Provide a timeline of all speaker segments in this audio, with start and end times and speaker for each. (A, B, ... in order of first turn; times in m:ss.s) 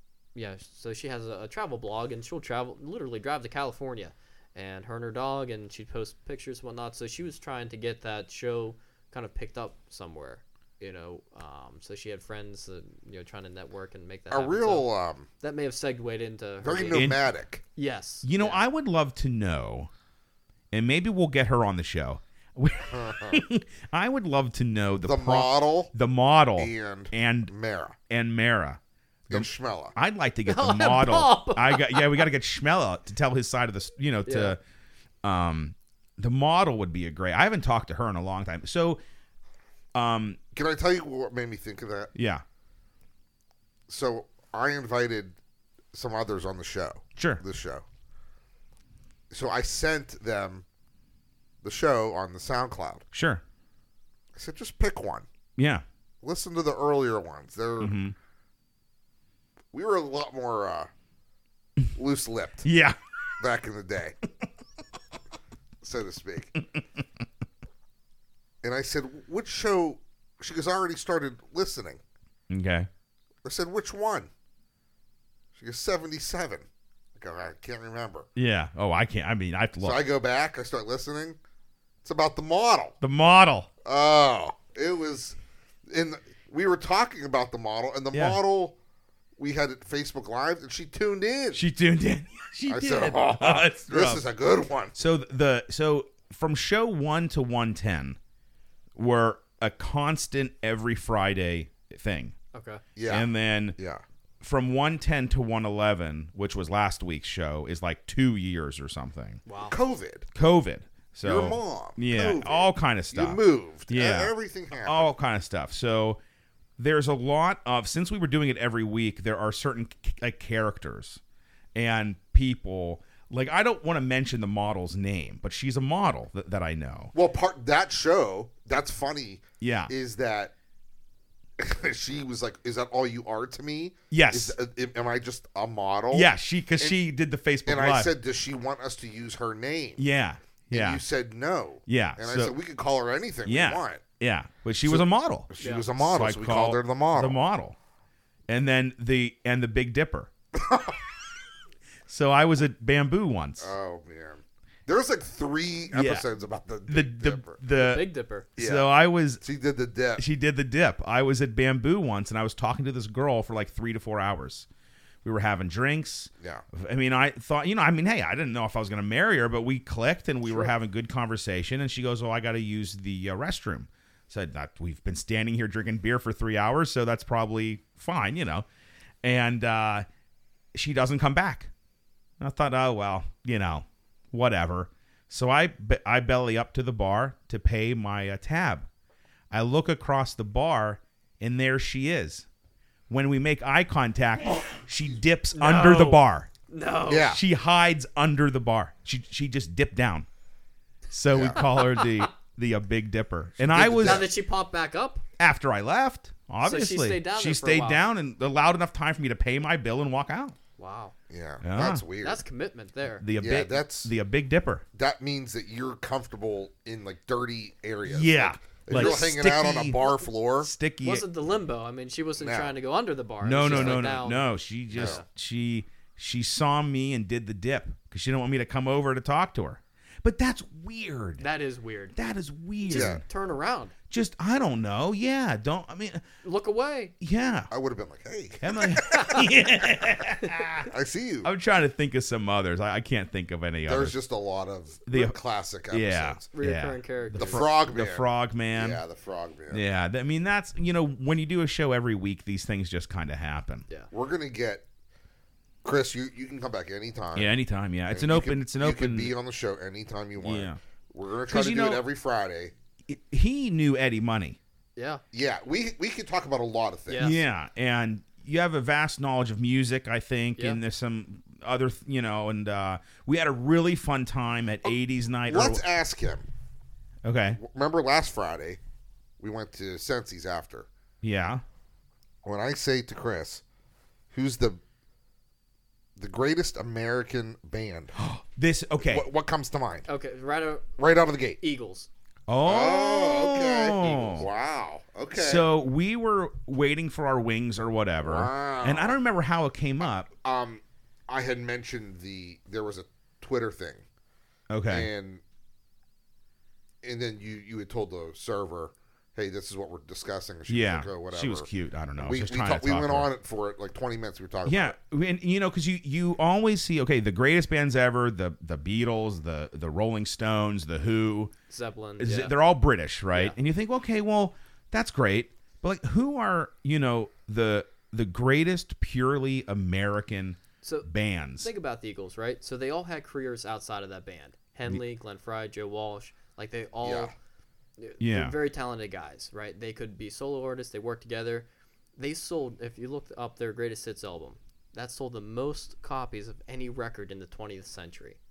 0:00.4-0:14.9 A
0:14.3-0:15.3 B
0:15.4-0:17.1 A
0:16.6-0:17.6 B
0:16.9-0:17.2 C
0:17.8-0:18.6 A
0:18.2-0:19.9 C
0:20.7-0:27.5 C
0:22.9-0:23.4 B
0:25.0-0:25.9 B
0:26.6-0:28.0 B
0:28.1-0:28.8 C
0:29.3-0:30.0 B
0:29.3-0:34.6 C
0:30.5-0:32.2 A
0:34.3-0:34.6 A
0:35.2-0:39.0 C
0:39.9-0:40.4 C
0:40.5-0:42.1 B
0:42.2-0:42.4 C
0:43.9-0:45.4 B
0:45.9-0:47.8 B
0:47.2-0:47.4 C
0:49.3-0:50.6 B
0:51.6-0:53.0 B
0:53.1-0:53.4 C
0:54.4-0:55.3 B
0:55.6-0:55.8 C
0:56.2-0:57.9 B
0:57.8-0:58.2 C
0:59.7-1:00.9 B
1:02.0-1:02.7 B
1:02.6-1:03.0 C
1:03.4-1:04.2 B
1:05.8-1:06.6 B
1:08.6-1:12.0 B
1:12.5-1:12.9 C
1:13.4-1:14.3 B
1:15.6-1:16.7 B
1:17.2-1:18.3 B
1:18.4-1:20.0 C
1:19.8-1:21.4 B
1:22.0-1:23.0 B
1:23.0-1:23.7 C
1:23.8-1:25.4 B
1:25.9-1:28.8 B
1:28.1-1:28.4 C
1:29.4-1:31.6 B
1:31.5-1:34.2 C
1:32.7-1:35.0 B
1:35.0-1:38.2 C
1:39.0-1:42.3 C
1:42.5-1:42.8 A
1:43.0-1:44.0 B
1:43.1-1:43.8 C
1:44.4-1:49.4 C
1:49.5-1:49.8 A
1:49.6-1:50.3 B
1:50.3-1:54.3 C
1:51.2-1:55.1 B
1:54.8-1:56.2 C
1:56.8-2:01.2 C
2:01.8-2:07.1 C
2:07.1-2:10.5 B
2:09.6-2:09.9 C
2:11.6-2:17.0 B
2:14.1-2:14.6 C
2:16.1-2:18.1 C
2:17.7-2:20.0 B
2:20.0-2:21.0 C
2:20.7-2:24.0 B
2:21.9-2:22.5 C
2:23.4-2:27.8 C
2:24.8-2:27.4 B
2:25.6-2:25.9 A
2:28.5-2:30.3 C
2:30.5-2:31.0 B
2:32.1-2:33.7 C
2:33.6-2:37.6 B
2:35.9-2:36.3 C
2:36.9-2:38.0 C
2:37.7-2:38.5 A
2:38.6-2:38.9 B
2:38.6-2:39.4 C
2:39.4-2:40.2 B
2:40.2-2:44.7 C
2:45.2-2:58.7 C
2:50.5-2:50.7 A
2:59.2-3:00.0 C
3:00.7-3:01.7 C
3:02.4-3:08.9 C
3:09.5-3:12.5 C
3:13.1-3:16.5 C
3:15.6-3:17.3 A
3:17.1-3:17.4 B
3:17.2-3:20.3 C
3:21.1-3:24.2 C
3:21.3-3:21.7 B
3:21.6-3:22.3 A
3:23.6-3:24.3 B
3:24.0-3:25.2 A
3:25.4-3:30.6 C
3:26.6-3:28.0 A
3:30.8-3:31.1 A
3:31.3-3:32.4 B
3:31.6-3:32.0 C
3:32.2-3:33.2 A
3:33.2-3:34.8 C
3:33.4-3:34.1 B
3:35.0-3:40.7 B
3:38.1-3:40.0 C
3:38.9-3:39.3 A
3:40.6-3:41.2 C
3:41.0-3:44.4 A
3:42.4-3:42.7 B
3:43.4-3:51.4 C
3:43.6-3:44.0 B
3:44.9-3:45.2 B
3:45.0-3:45.2 A
3:51.4-3:52.2 A
3:52.2-3:53.2 C
3:52.8-3:53.9 A
3:52.9-3:53.2 B
3:54.1-3:56.2 C
3:56.4-3:57.1 A
3:57.2-3:57.7 C
3:57.7-3:59.5 B
3:58.6-4:00.9 C
3:59.1-3:59.4 A
4:00.8-4:01.5 B
4:01.4-4:04.2 C
4:03.9-4:06.4 B
4:05.1-4:05.4 C
4:05.9-4:09.0 C
4:06.5-4:07.6 A
4:07.3-4:09.8 B
4:09.7-4:13.8 C
4:14.1-4:14.8 B
4:15.8-4:17.5 B
4:17.4-4:19.3 C
4:18.1-4:22.7 B
4:20.4-4:20.8 C
4:21.5-4:22.0 C
4:23.1-4:24.6 C
4:25.0-4:25.2 A
4:25.3-4:27.3 B
4:27.1-4:27.4 A
4:27.2-4:35.8 C
4:35.5-4:36.5 B
4:37.2-4:37.6 C
4:37.6-4:38.8 B
4:39.4-4:40.9 B
4:41.2-4:41.6 C
4:42.4-4:43.6 B
4:44.3-4:44.8 B
4:46.2-4:48.2 B
4:48.2-4:49.3 C
4:49.0-4:50.1 B
4:50.1-4:50.9 A
4:51.0-4:51.6 B
4:51.6-4:52.1 A
4:52.5-4:54.5 C
4:52.6-4:55.7 B
4:55.4-5:00.3 C
4:58.2-4:59.2 B
5:00.4-5:04.0 B
5:04.7-5:05.1 C
5:04.9-5:05.4 B
5:07.0-5:15.0 B
5:10.7-5:13.3 C
5:14.7-5:21.5 C
5:21.7-5:22.6 A
5:22.2-5:31.7 C
5:30.8-5:31.1 A
5:31.6-5:37.3 A
5:37.0-5:37.3 B
5:38.0-5:41.7 A
5:38.2-5:38.6 C
5:42.2-5:48.4 A